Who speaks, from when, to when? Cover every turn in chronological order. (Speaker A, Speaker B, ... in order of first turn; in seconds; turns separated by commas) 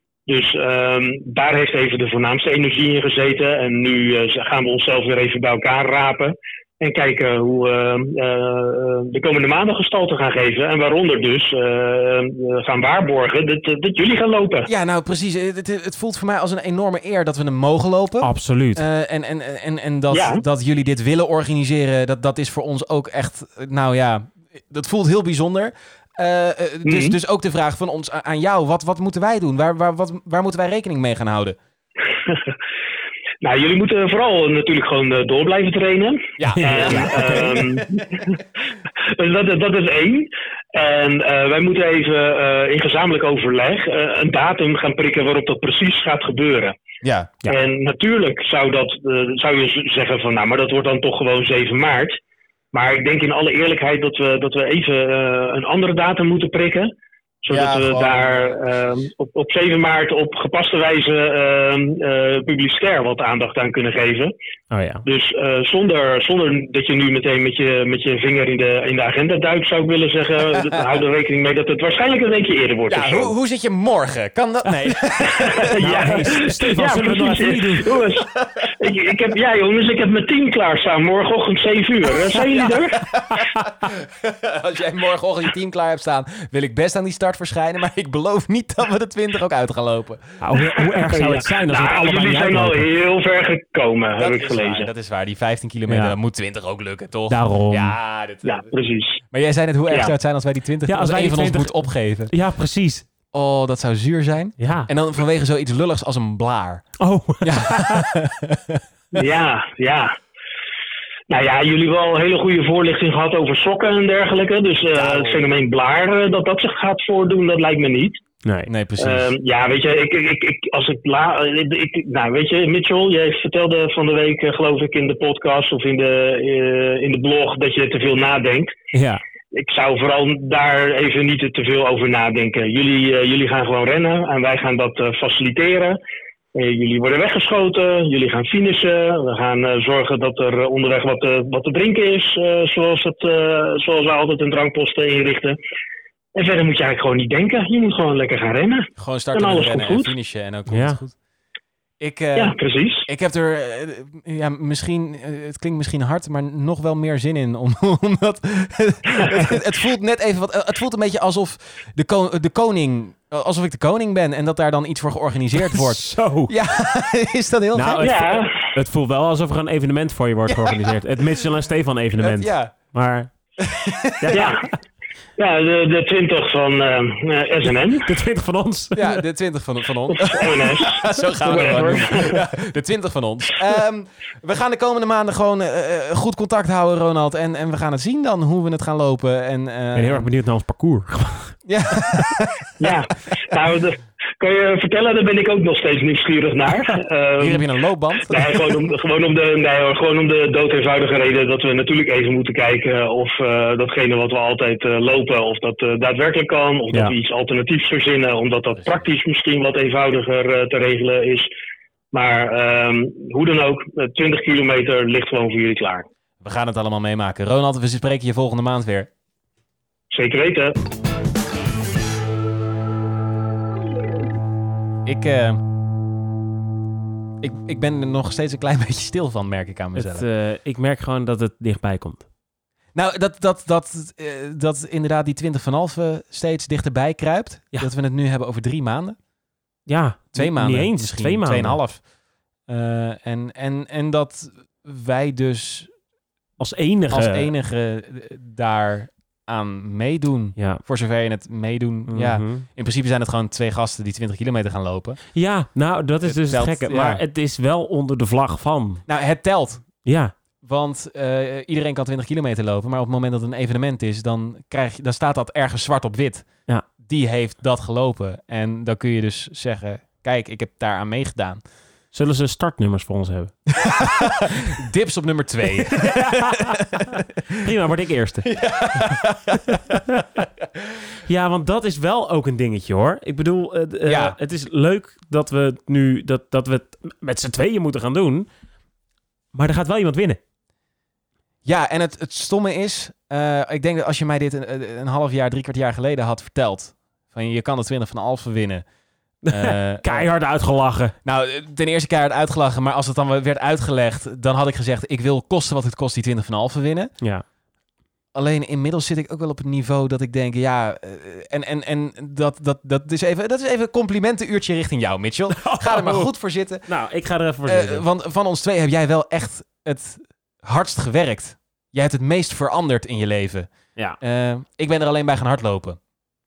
Speaker A: 0.3-14.7, Speaker B: 14.7-31.6, Speaker C: 18.2-18.8, Speaker A: 20.1-20.4, Speaker A: 26.9-27.2, Speaker A: 32.3-32.5, Speaker A: 33.4-38.4, Speaker B: 36.4-38.0, Speaker C: 36.5-37.7, Speaker A: 39.0-46.8, Speaker B: 47.0-47.3, Speaker A: 47.5-52.2, Speaker A: 52.7-56.9, Speaker A: 57.4-64.3, Speaker B: 57.5-58.6, Speaker C: 64.7-65.0, Speaker A: 65.0-73.3, Speaker B: 72.9-76.3, Speaker A: 75.3-83.0, Speaker C: 75.8-78.0, Speaker B: 78.3-78.7, Speaker B: 82.3-90.4, Speaker C: 90.4-92.9, Speaker A: 91.1-94.9, Speaker B: 94.2-98.7, Speaker C: 95.9-96.2, Speaker C: 97.3-98.0, Speaker A: 98.5-99.2, Speaker B: 99.3-102.3, Speaker C: 100.9-103.0, Speaker B: 103.3-108.8, Speaker C: 104.6-104.9, Speaker C: 107.0-108.1, Speaker A: 109.1-110.2, Speaker A: 111.3-118.2, Speaker B: 115.0-115.5, Speaker C: 118.4-118.7, Speaker B: 118.7-119.3, Speaker A: 119.0-128.8, Speaker A: 129.5-136.0, Speaker A: 136.5-145.6, Speaker A: 146.3-150.1, Speaker B: 149.0-151.2, Speaker C: 150.7-151.0, Speaker B: 152.0-152.6, Speaker A: 152.4-153.1, Speaker B: 153.1-168.2, Speaker C: 165.6-166.5, Speaker C: 167.7-173.3, Speaker A: 168.0-168.7, Speaker B: 170.5-170.9, Speaker B: 172.2-172.7, Speaker B: 173.6-174.5, Speaker C: 174.2-174.6, Speaker A: 174.3-174.7, Speaker A: 175.4-178.1, Speaker C: 178.0-179.2, Speaker B: 178.9-190.3, Speaker A: 180.1-182.4, Speaker C: 181.5-182.0, Speaker C: 189.9-191.6, Speaker B: 191.7-192.9, Speaker A: 192.8-197.7, Speaker B: 197.4-198.6, Speaker A: 198.3-211.5, Speaker A: 212.1-216.1, Speaker B: 216.4-219.1, Speaker A: 220.1-220.8, Speaker B: 225.1-225.6, Speaker B: 227.4-230.3, Speaker C: 230.0-232.2, Speaker B: 232.9-239.2, Speaker C: 239.9-241.8, Speaker B: 240.3-242.0, Speaker B: 242.7-245.9, Speaker C: 246.6-247.5, Speaker B: 247.1-255.2, Speaker C: 250.6-250.8, Speaker C: 252.1-252.7, Speaker C: 255.3-259.1, Speaker B: 256.2-257.2, Speaker B: 259.1-259.9, Speaker C: 260.0-260.3, Speaker B: 260.6-266.5, Speaker B: 267.0-271.6, Speaker C: 272.1-273.5, Speaker B: 273.8-277.6, Speaker C: 275.9-280.4, Speaker B: 278.4-280.1, Speaker C: 281.2-288.5, Speaker B: 284.1-284.4, Speaker C: 289.5-290.4, Speaker B: 291.6-298.8, Speaker C: 299.4-301.2, Speaker B: 299.5-300.3, Speaker B: 301.2-307.1, Speaker B: 308.4-316.9, Speaker C: 315.5-316.3, Speaker C: 316.9-318.1, Speaker B: 317.7-326.0